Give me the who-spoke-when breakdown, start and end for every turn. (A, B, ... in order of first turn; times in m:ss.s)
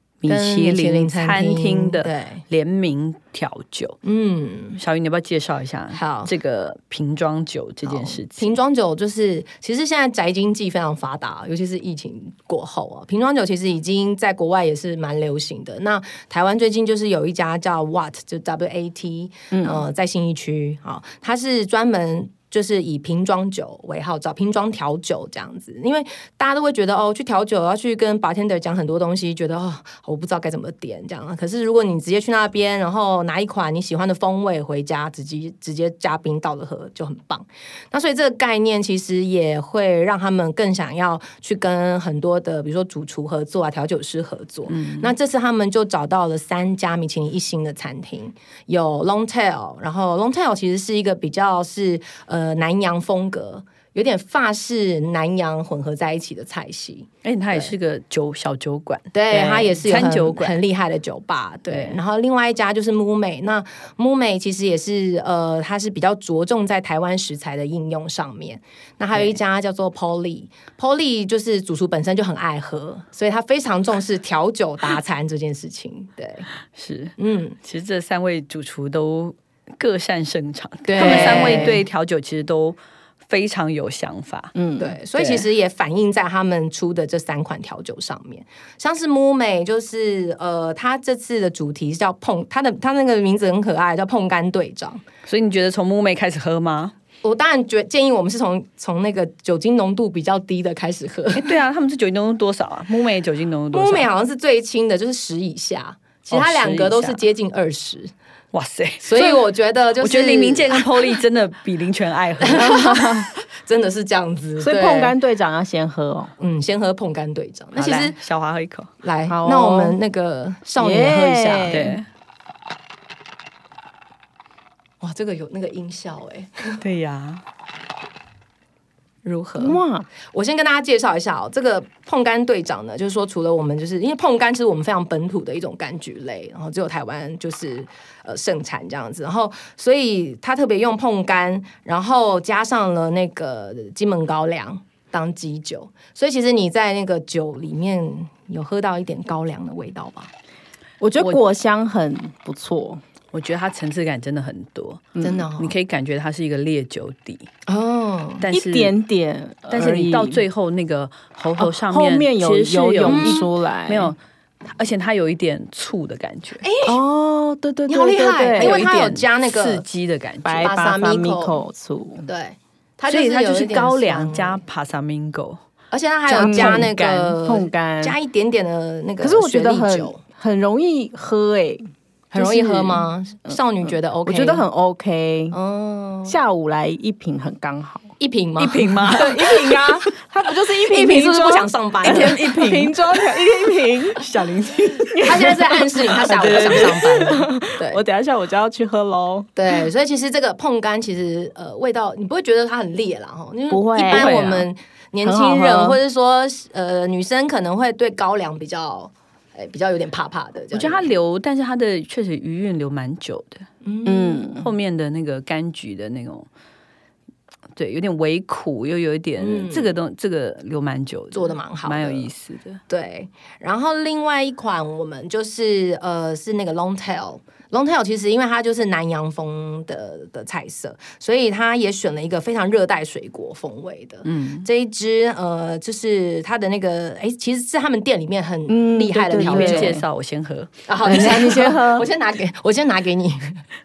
0:00.2-0:04.0 A
0:00.3-0:02.4 B
0:04.0-0:04.8 B
0:04.8-0:08.6 A
0:05.9-0:06.3 B
0:07.8-0:57.7 B
0:19.5-0:19.8 C
0:44.7-0:45.1 A
0:57.2-1:00.6 A
0:59.1-1:16.5 B
1:01.7-1:02.0 A
1:16.8-1:24.5 A
1:17.2-1:17.6 B
1:20.9-1:21.8 B
1:21.0-1:21.8 C
1:24.6-1:25.0 C
1:24.8-1:35.0 B
1:25.2-1:25.4 A
1:35.3-1:37.0 A
1:37.2-1:41.6 B
1:41.3-1:44.1 A
1:43.7-1:48.1 B
1:46.3-1:47.2 A
1:48.5-1:49.4 A
1:49.0-1:51.2 B
1:50.0-1:53.0 A
1:52.4-1:55.2 B
1:52.8-1:53.2 C
1:54.6-1:56.3 C
1:56.4-1:58.2 B
1:57.8-1:58.9 A
1:59.0-2:02.0 B
1:59.3-2:00.0 C
2:00.8-2:02.0 C
2:01.7-2:02.1 A
2:05.0-2:06.8 B
2:06.8-2:07.4 A
2:09.2-2:30.3 B
2:09.6-2:10.1 C
2:31.0-2:33.0 C
2:33.3-2:37.5 A
2:35.2-2:35.7 B
2:37.7-2:38.4 B
2:38.4-2:38.9 A
2:38.5-2:40.4 C
2:39.7-2:44.2 A
2:41.6-2:44.1 C
2:43.1-2:43.4 B
2:44.8-2:46.6 A
2:46.6-2:48.8 C
2:47.9-2:49.8 B
2:48.6-2:50.7 A
2:50.4-2:52.3 C
2:50.6-2:51.6 B
2:52.3-2:54.6 B
2:53.1-2:55.6 A
2:55.9-3:00.2 B
2:56.3-2:58.2 C
2:59.2-3:05.6 C
3:02.3-3:04.6 B
3:05.5-3:06.4 B
3:06.3-3:08.1 C
3:08.2-3:10.1 B
3:08.6-3:09.4 A
3:09.1-3:14.2 C
3:10.8-3:12.6 B
3:12.0-3:13.0 A
3:14.2-3:15.5 A
3:15.1-3:19.5 C
3:15.2-3:18.0 B
3:16.4-3:17.3 A
3:19.6-3:31.1 B
3:23.7-3:24.4 C
3:24.1-3:24.7 A
3:25.2-3:26.0 C
3:30.7-3:33.7 A
3:33.8-3:34.7 B
3:34.0-3:34.6 C
3:34.6-3:36.5 A
3:37.8-3:42.8 A
3:39.4-3:40.0 B
3:41.3-3:42.3 B
3:42.9-4:00.0 B
3:54.2-3:54.7 A
3:58.7-4:00.0 C
3:59.4-4:02.0 A
4:00.9-4:03.6 B
4:01.1-4:01.9 C